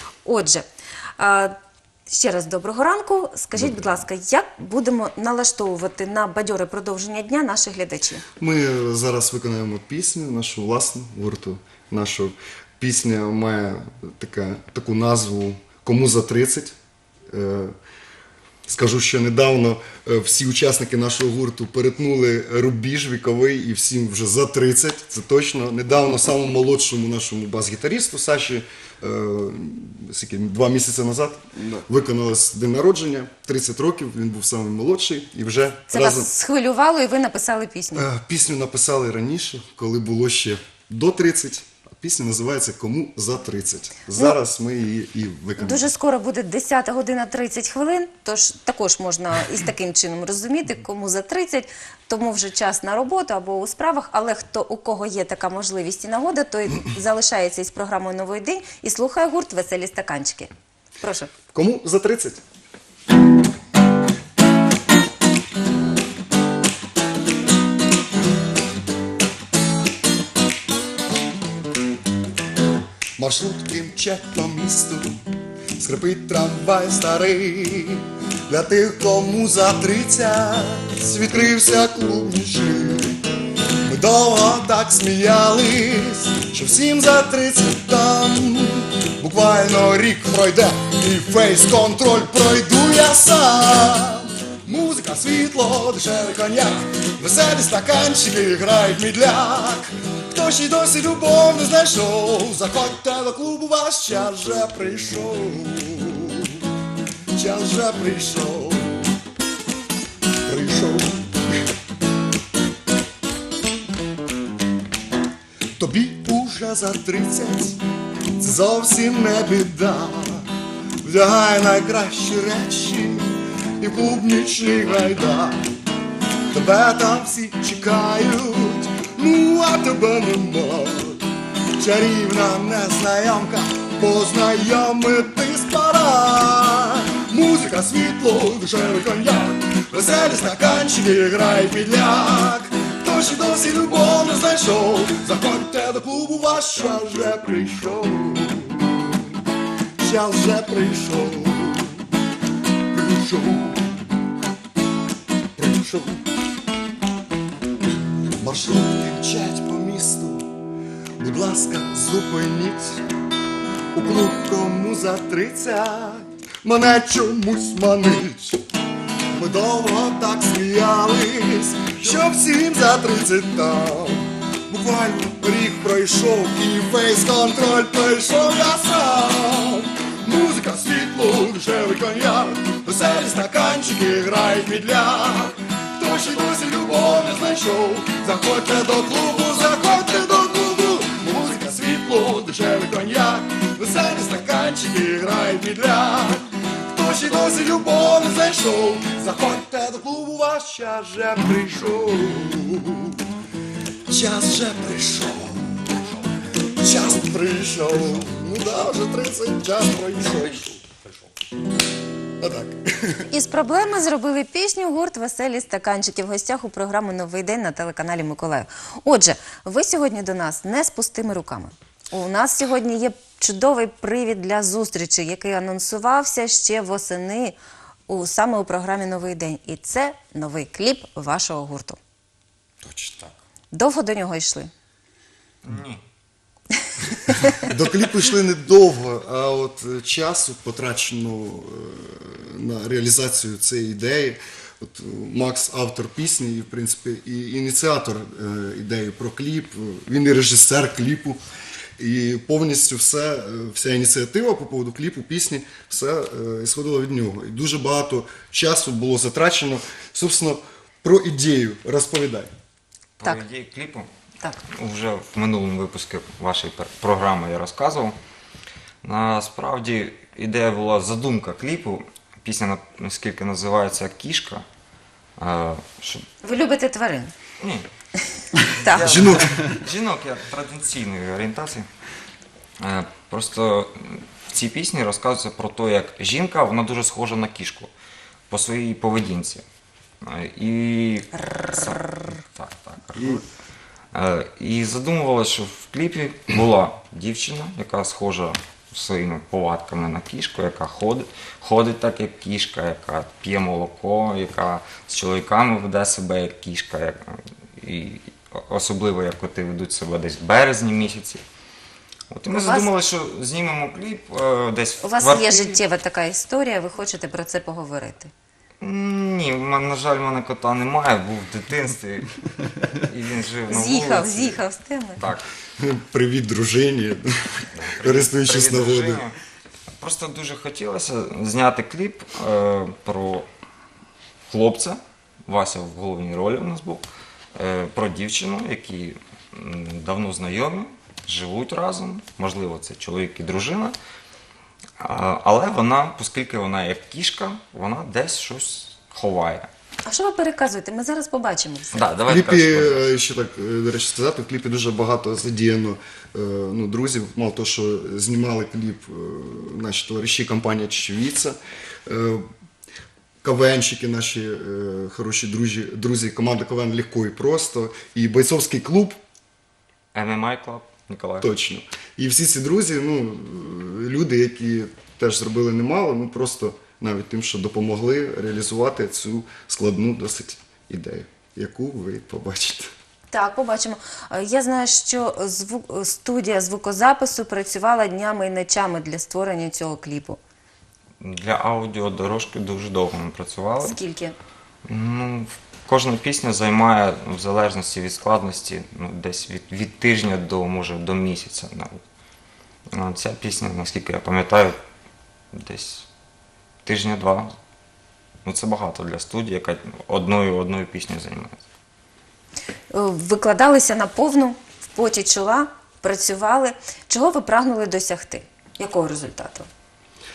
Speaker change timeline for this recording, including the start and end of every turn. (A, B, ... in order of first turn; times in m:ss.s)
0:00.2-0:00.6 A
0:01.2-0:01.5 A
0:02.1-0:08.2 A
0:08.4-0:16.7 B
0:17.3-0:17.7 B
0:18.7-0:36.3 B
0:35.9-0:38.1 A
0:37.9-0:45.9 B
0:45.6-1:00.5 A
1:01.0-1:01.3 A
1:01.5-1:02.4 B
1:13.2-1:15.1 B
1:15.8-1:23.2 B
1:23.8-1:46.6 B
1:47.3-1:49.0 B
1:50.4-1:51.4 B
1:55.8-1:57.8 B
1:58.4-2:00.5 B
2:01.0-2:05.6 B
2:06.5-2:11.2 B
2:11.8-2:29.3 B
2:30.0-2:32.0 B
2:32.9-2:34.0 B
2:35.6-2:36.2 B
2:38.4-2:40.5 B
2:41.2-2:43.0 B
2:43.9-2:48.6 B
2:49.3-3:23.2 B
3:24.1-3:26.0 B
3:26.8-3:30.8 B
3:32.4-3:33.1 B
3:33.3-3:47.6 A
3:48.1-3:52.0 A
3:52.8-3:53.3 C
3:53.7-3:54.7 A
3:55.6-3:56.0 C
3:57.5-4:11.4 B
4:12.0-4:22.5 B
4:23.2-4:24.1 C
4:24.8-4:28.1 C
4:29.0-4:34.6 C
4:35.4-4:36.2 C
4:36.4-4:37.3 A
4:37.6-4:37.8 C
4:38.8-4:41.8 C
4:38.8-4:39.1 A
4:38.9-4:39.7 B
4:42.8-4:47.9 C
4:48.5-4:49.6 C
4:50.2-4:53.4 C
4:54.1-5:11.4 C
5:12.3-5:15.8 C
5:12.5-5:12.9 A
5:15.0-5:18.3 A
5:18.8-5:22.3 C
5:22.9-5:24.6 C
5:23.7-5:25.2 A
5:25.2-5:25.5 C
5:25.8-5:27.2 B
5:27.7-5:29.4 C
5:28.0-5:29.2 B
5:30.0-5:33.4 C
5:34.5-5:44.0 C
5:45.0-5:49.7 C
5:50.0-5:52.0 A
5:51.9-5:53.0 C
5:52.3-6:02.4 B
6:03.4-6:09.2 B
6:10.1-6:11.5 C
6:11.4-6:22.9 B
6:23.3-6:30.4 A
6:31.2-6:34.0 C
6:33.8-6:34.3 A
6:34.9-6:42.0 C
6:42.9-6:44.8 C
6:45.5-6:46.1 C
6:46.8-6:47.5 C
6:48.4-6:51.6 C
6:52.9-6:59.7 A